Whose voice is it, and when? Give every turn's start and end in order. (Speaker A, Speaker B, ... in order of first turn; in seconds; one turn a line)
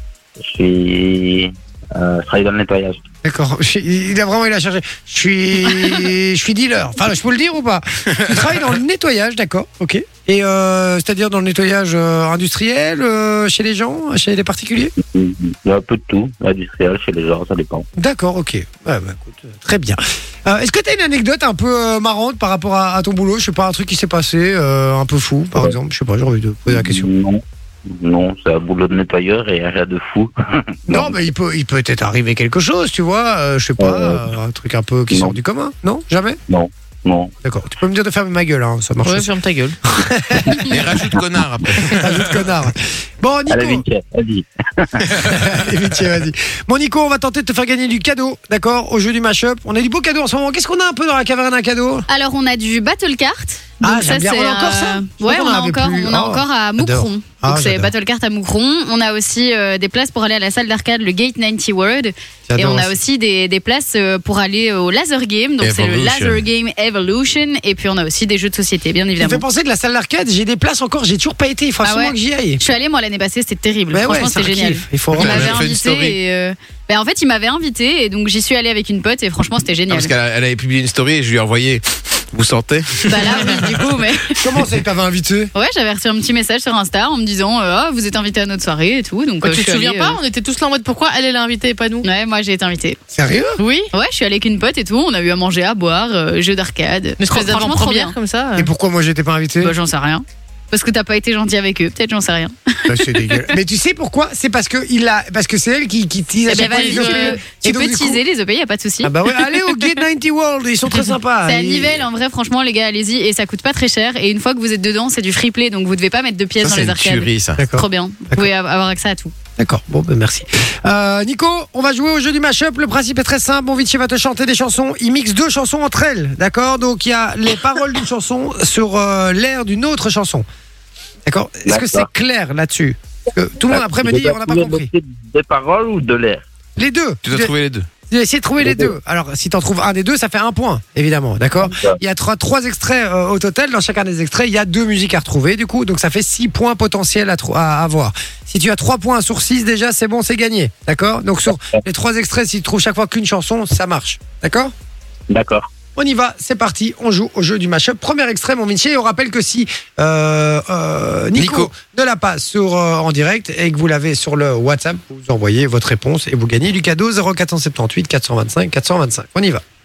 Speaker A: 0.4-3.0
Speaker B: 3.2-14.9
Speaker A: 15.0-17.9
Speaker B: 18.0-27.1
Speaker A: 26.7-31.2
Speaker B: 30.9-36.4
Speaker A: 33.8-34.2
Speaker A: 35.1-35.4
Speaker A: 36.5-37.3
Speaker B: 37.4-40.9
Speaker C: 39.0-39.8
Speaker D: 40.6-42.5
Speaker B: 41.8-43.9
Speaker A: 43.5-45.2
Speaker B: 45.2-52.1
Speaker E: 52.1-69.4
Speaker B: 53.8-57.9
Speaker B: 62.5-63.0
Speaker D: 65.6-66.5
Speaker B: 69.2-72.6
Speaker E: 71.8-80.1
Speaker B: 73.9-75.6
Speaker D: 75.1-76.2
Speaker D: 79.9-83.9
Speaker E: 83.1-84.4
Speaker B: 84.4-85.5
Speaker E: 85.5-90.2
Speaker C: 89.4-92.1
Speaker E: 92.0-93.0
Speaker B: 93.1-93.6
Speaker C: 93.6-93.9
Speaker E: 93.9-98.1
Speaker C: 97.2-98.7
Speaker B: 98.6-99.7
Speaker E: 99.6-103.5
Speaker B: 102.9-108.2
Speaker E: 106.5-110.0
Speaker C: 106.5-107.4
Speaker B: 109.0-112.0
Speaker E: 111.5-119.3
Speaker D: 116.6-117.6
Speaker B: 117.6-118.5
Speaker B: 119.6-130.5
Speaker B: 131.3-134.9
Speaker A: 131.7-132.1
Speaker A: 133.7-136.4
Speaker B: 136.8-137.5
Speaker D: 137.2-137.9
Speaker B: 138.1-154.7
Speaker A: 138.6-138.9
Speaker A: 141.6-142.0
Speaker A: 155.3-155.7
Speaker B: 156.0-169.6
Speaker D: 161.3-161.7